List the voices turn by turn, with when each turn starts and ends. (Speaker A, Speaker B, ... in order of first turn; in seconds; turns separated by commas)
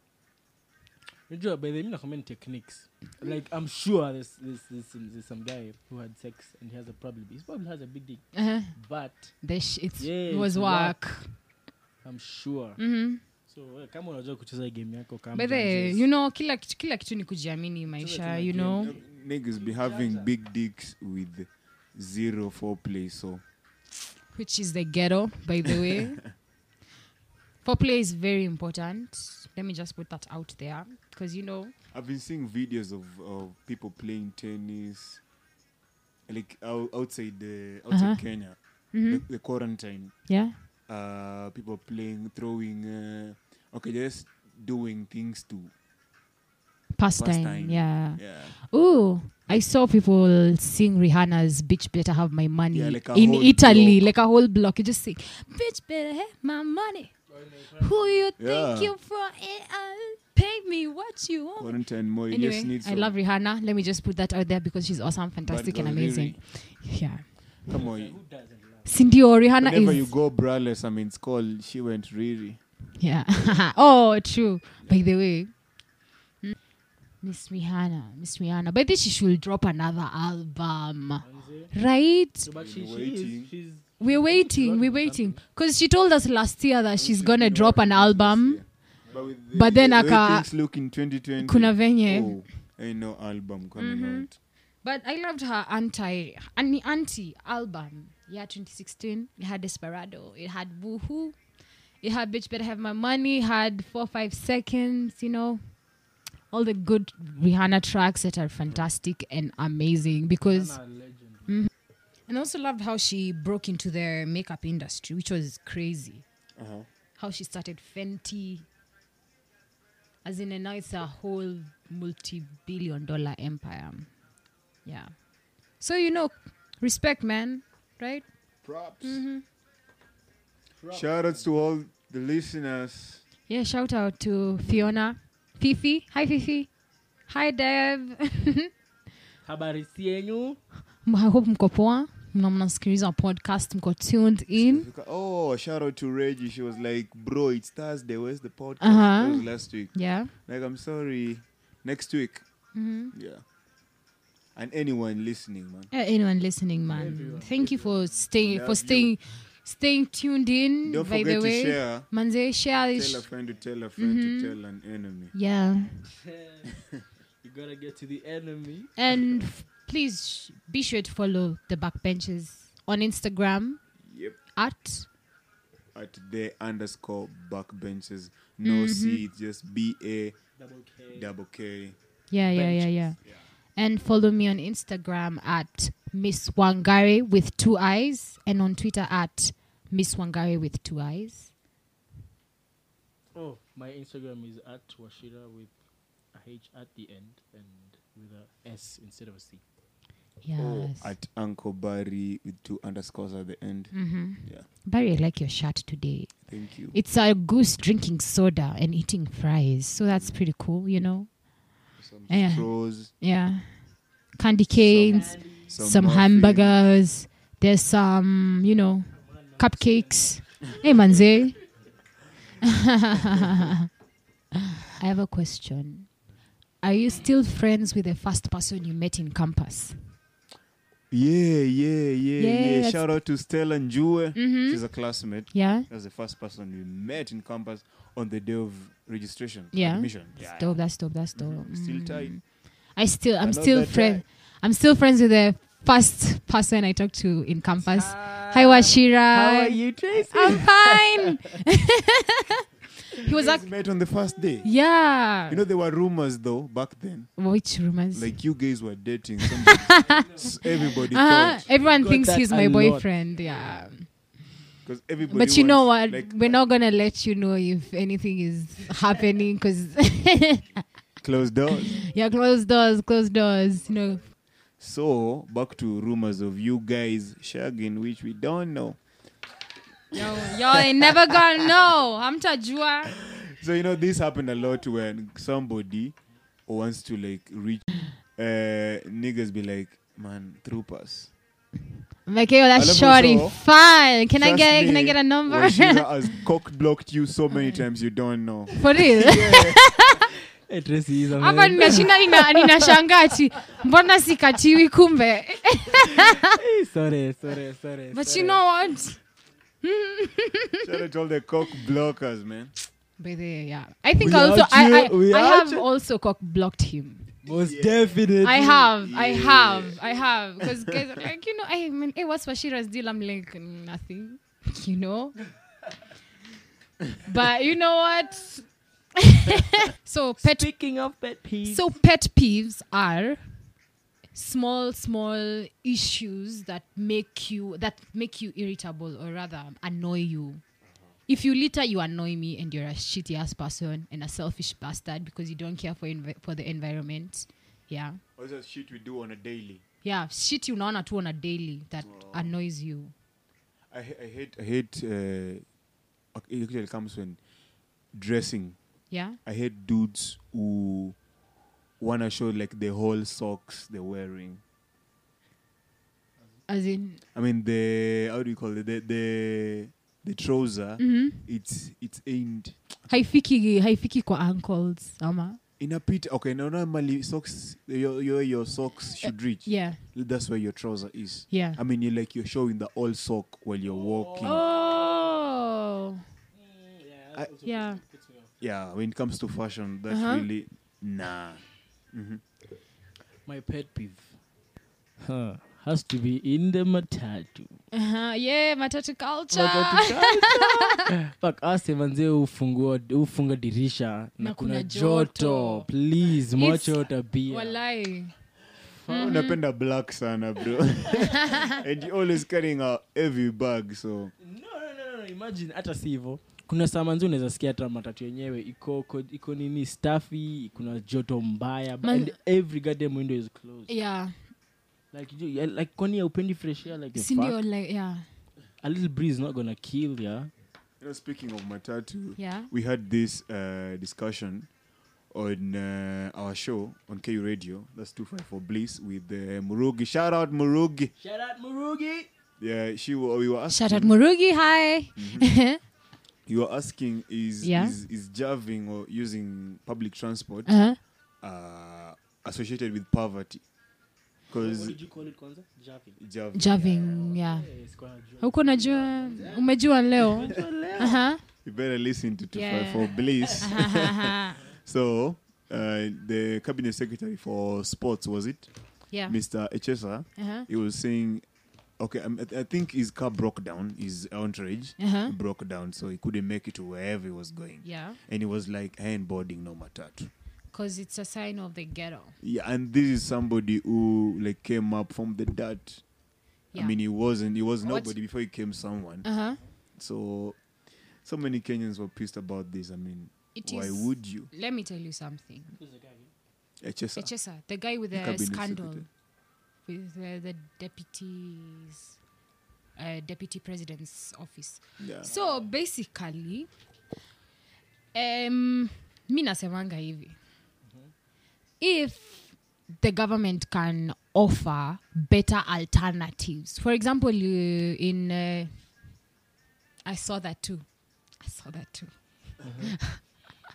Speaker A: 1.3-9.3, Speaker B: 8.3-8.8, Speaker B: 9.4-11.3, Speaker A: 10.0-11.1, Speaker A: 12.0-12.8, Speaker B: 12.8-13.2, Speaker A: 13.5-16.1, Speaker B: 15.3-18.9, Speaker A: 18.0-20.3, Speaker C: 18.7-23.4, Speaker B: 24.3-26.2, Speaker B: 27.6-31.7, Speaker C: 31.9-35.2, Speaker C: 36.3-40.1, Speaker B: 37.9-39.2, Speaker B: 40.3-40.5, Speaker C: 40.9-45.7, Speaker B: 46.9-57.2, Speaker C: 47.1-48.6, Speaker C: 52.7-54.0, Speaker A: 57.3-58.3, Speaker B: 57.8-61.8, Speaker C: 58.4-58.9, Speaker C: 61.6-63.1, Speaker B: 62.3-67.3, Speaker C: 65.5-66.4, Speaker C: 67.7-68.2, Speaker A: 67.7-69.3, Speaker B: 68.8-70.1, Speaker C: 69.6-72.6, Speaker B: 73.0-75.5, Speaker C: 74.8-75.1, Speaker B: 77.2-82.5, Speaker A: 81.2-81.7, Speaker A: 82.4-85.4, Speaker C: 82.5-83.5, Speaker B: 84.0-88.6, Speaker C: 87.0-94.3, Speaker A: 89.0-89.3, Speaker B: 89.5-90.5, Speaker B: 91.4-92.5, Speaker B: 93.8-94.3, Speaker B: 94.8-101.3, Speaker B: 102.0-105.6, Speaker B: 106.5-110.8, Speaker A: 110.5-111.6, Speaker B: 112.3-116.2, Speaker C: 116.5-116.9, Speaker B: 117.2-118.7, Speaker B: 120.2-124.1, Speaker B: 124.8-125.2, Speaker B: 125.8-129.4, Speaker C: 128.6-129.2, Speaker A: 130.8-131.4, Speaker C: 130.9-133.2, Speaker B: 133.5-136.7, Speaker C: 134.6-134.9, Speaker B: 137.3-138.7, Speaker A: 139.4-140.6, Speaker B: 141.0-144.9, Speaker C: 144.6-152.4, Speaker B: 148.8-150.3, Speaker B: 152.7-153.1, Speaker C: 153.1-153.4, Speaker C: 154.5-155.9, Speaker B: 155.9-163.2, Speaker A: 156.9-158.3, Speaker C: 158.4-159.2, Speaker C: 160.8-162.1, Speaker C: 162.9-165.3, Speaker B: 164.0-164.6, Speaker B: 165.3-166.0, Speaker A: 166.1-166.7, Speaker A: 167.4-169.0, Speaker B: 169.0-173.8, Speaker C: 174.1-174.4, Speaker B: 174.5-175.1, Speaker C: 175.9-180.4, Speaker B: 178.6-179.2, Speaker A: 180.6-181.3, Speaker C: 181.1-182.0, Speaker B: 182.3-183.2, Speaker C: 182.5-183.4, Speaker B: 183.7-191.5, Speaker A: 193.3-195.7, Speaker A: 196.3-199.6, Speaker B: 200.4-201.1, Speaker C: 200.6-204.7, Speaker B: 203.9-206.3, Speaker C: 206.5-206.9, Speaker B: 206.9-211.3, Speaker C: 210.1-210.4, Speaker C: 212.0-213.1, Speaker B: 212.3-213.8, Speaker B: 214.3-221.6, Speaker C: 214.7-216.8, Speaker A: 215.0-215.7, Speaker A: 219.1-221.7, Speaker B: 222.6-223.8, Speaker B: 225.0-226.1, Speaker B: 226.8-230.0, Speaker C: 231.1-240.8, Speaker B: 232.4-233.1, Speaker B: 234.3-234.8, Speaker B: 235.5-235.9, Speaker B: 239.7-253.7, Speaker C: 241.3-242.4, Speaker C: 243.4-244.2, Speaker A: 247.8-251.3, Speaker C: 253.3-254.7, Speaker B: 254.6-255.6, Speaker C: 255.5-257.4, Speaker B: 257.4-258.5, Speaker C: 258.1-261.6, Speaker B: 259.7-264.1, Speaker A: 260.0-260.6, Speaker A: 261.7-263.9, Speaker C: 264.8-266.6, Speaker B: 265.2-270.8, Speaker C: 271.2-272.0, Speaker B: 271.7-274.2, Speaker C: 274.8-279.0, Speaker B: 280.1-283.1, Speaker C: 280.1-281.4, Speaker C: 283.1-286.1, Speaker C: 286.7-291.3, Speaker B: 292.2-296.1, Speaker C: 292.8-293.6, Speaker C: 294.4-299.8, Speaker B: 298.8-300.3, Speaker A: 300.7-302.8, Speaker B: 301.4-306.6, Speaker A: 306.2-308.6, Speaker B: 308.1-309.2, Speaker B: 309.8-310.9, Speaker C: 310.8-312.7, Speaker B: 313.2-317.3, Speaker A: 314.2-315.9, Speaker A: 317.4-318.9, Speaker C: 317.4-318.2, Speaker B: 318.4-325.4, Speaker C: 319.0-320.9, Speaker B: 327.2-328.6, Speaker B: 329.2-330.7, Speaker A: 330.4-331.8, Speaker B: 331.6-333.6, Speaker B: 334.3-340.6, Speaker B: 341.3-348.2, Speaker C: 348.4-349.8, Speaker B: 350.0-353.1, Speaker C: 352.0-352.5, Speaker C: 353.9-355.6, Speaker C: 356.3-357.4, Speaker C: 358.1-358.8, Speaker B: 359.1-359.4, Speaker C: 359.4-361.2, Speaker C: 362.0-364.6, Speaker B: 366.7-367.2, Speaker C: 367.3-372.8, Speaker B: 371.0-371.4, Speaker B: 373.1-375.6, Speaker C: 375.8-384.6, Speaker B: 379.2-380.0, Speaker B: 381.5-381.8, Speaker A: 383.9-385.5, Speaker B: 384.4-386.2, Speaker A: 386.5-388.5, Speaker B: 387.6-388.0, Speaker C: 388.6-392.4, Speaker B: 390.1-390.4, Speaker A: 393.4-394.4, Speaker A: 395.2-397.8, Speaker B: 397.9-401.1, Speaker A: 399.5-407.8, Speaker B: 404.4-405.9, Speaker B: 406.5-408.3, Speaker A: 408.9-409.3, Speaker B: 409.1-409.6, Speaker C: 409.1-414.3, Speaker A: 414.4-423.9, Speaker B: 422.0-422.3, Speaker B: 423.9-424.3, Speaker A: 425.1-427.6, Speaker B: 427.1-428.2, Speaker A: 428.8-430.5, Speaker C: 431.0-434.7, Speaker B: 432.4-432.7, Speaker C: 435.3-441.1, Speaker A: 441.2-442.3, Speaker C: 442.6-444.2, Speaker B: 443.7-445.8, Speaker C: 445.1-445.4, Speaker C: 446.4-450.7, Speaker B: 447.6-447.9, Speaker B: 450.6-451.0, Speaker C: 451.4-453.6, Speaker C: 454.5-455.0, Speaker A: 454.5-456.2, Speaker C: 456.2-457.2, Speaker B: 456.5-457.7, Speaker A: 456.7-461.2, Speaker B: 458.4-461.4, Speaker C: 460.5-461.0, Speaker C: 461.6-468.7, Speaker B: 462.5-464.6, Speaker A: 463.4-463.7, Speaker B: 469.1-469.4, Speaker C: 469.2-471.4, Speaker B: 470.4-470.6, Speaker C: 472.0-480.3, Speaker B: 475.0-475.3, Speaker B: 477.8-478.2, Speaker B: 480.7-482.3, Speaker C: 482.4-486.0, Speaker C: 486.7-489.2, Speaker B: 487.8-488.1, Speaker B: 489.2-489.6, Speaker C: 490.0-490.6, Speaker C: 491.2-494.5, Speaker B: 493.6-495.7, Speaker A: 495.7-496.3, Speaker C: 496.8-497.3, Speaker B: 497.1-499.1, Speaker C: 498.1-499.1, Speaker B: 499.9-502.1, Speaker B: 503.0-506.7, Speaker C: 505.0-505.3, Speaker A: 505.2-505.7, Speaker B: 508.1-510.4, Speaker A: 510.9-511.1, Speaker B: 511.8-518.7, Speaker B: 520.0-520.8, Speaker B: 521.4-523.2, Speaker A: 522.6-522.9